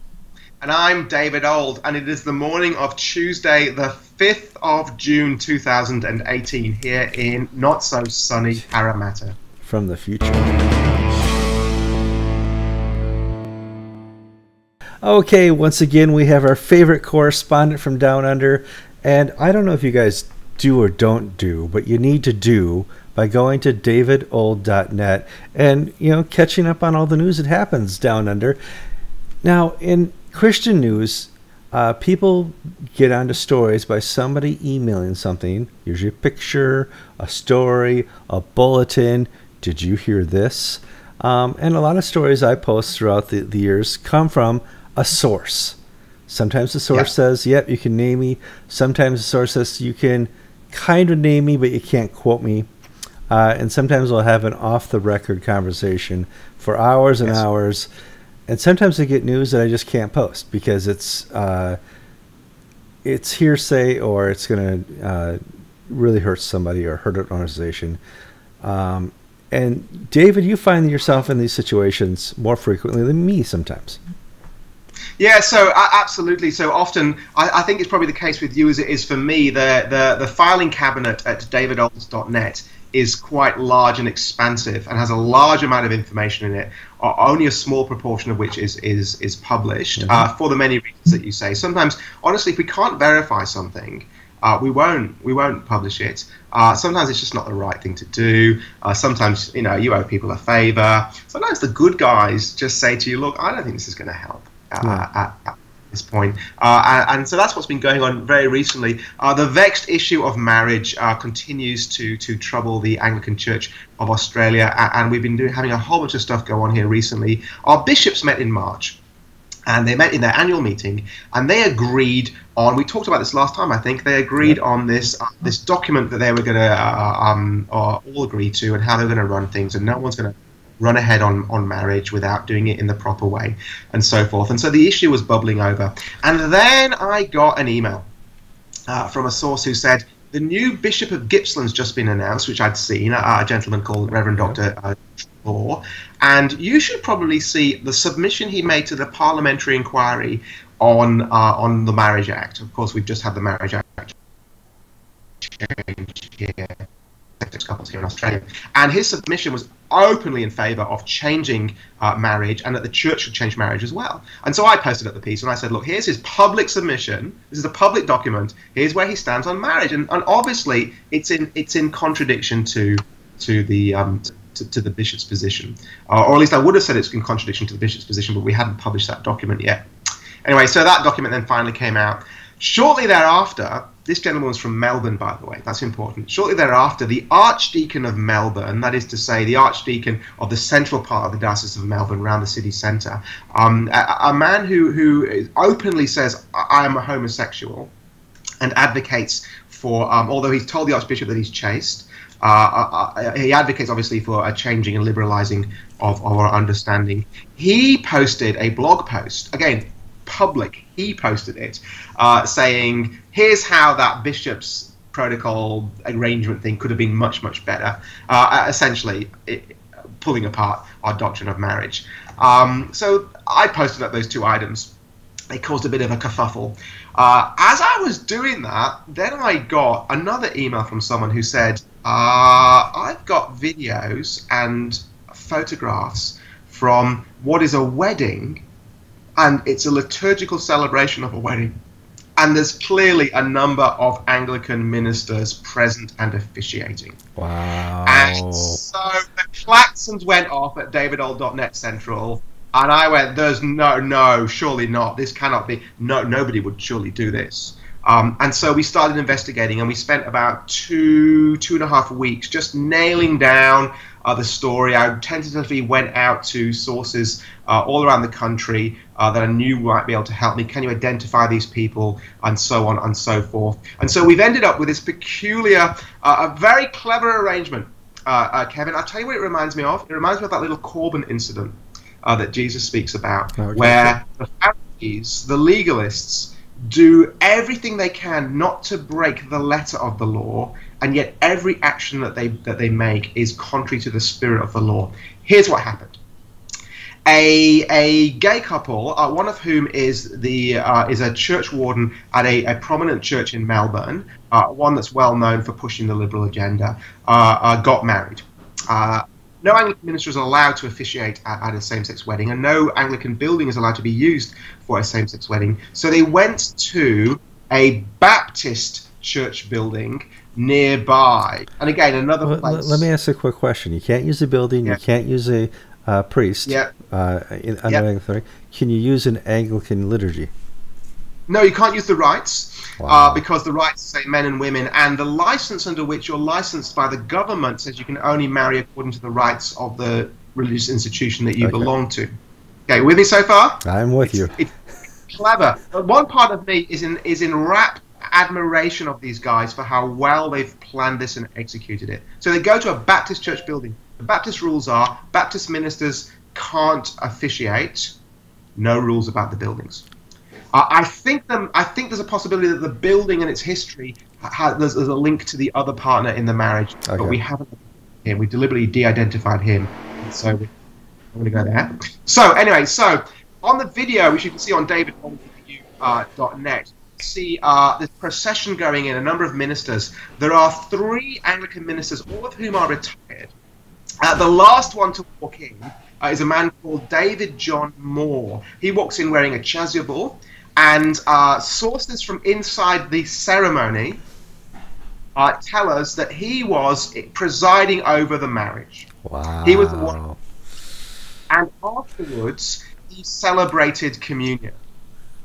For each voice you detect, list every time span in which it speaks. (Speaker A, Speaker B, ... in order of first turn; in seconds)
Speaker A: 0.6-9.4, 75.2-119.0, 119.7-138.1, 138.9-154.1, 155.4-156.8, 157.4-179.8, 180.4-197.9, 198.6-224.9, 225.5-238.6, 239.4-241.7, 242.4-247.2, 248.0-296.2, 297.2-323.1, 326.7-326.9, 331.5-342.3, 342.9-344.7, 345.3-358.1, 358.8-360.1, 360.7-370.7, 371.3-383.5, 384.2-394.2, 395.4-399.1, 399.6-400.2, 401.5-404.8
Speaker B: 9.6-10.5, 15.0-28.6, 29.4-45.8, 46.3-52.7, 53.3-57.9, 58.5-61.8, 63.0-68.0, 68.6-74.0, 90.0-90.3, 247.3-248.8, 283.6-284.2, 322.4-330.5, 333.0-333.4, 341.6-341.9, 343.9-344.6, 367.1-367.4, 399.2-400.4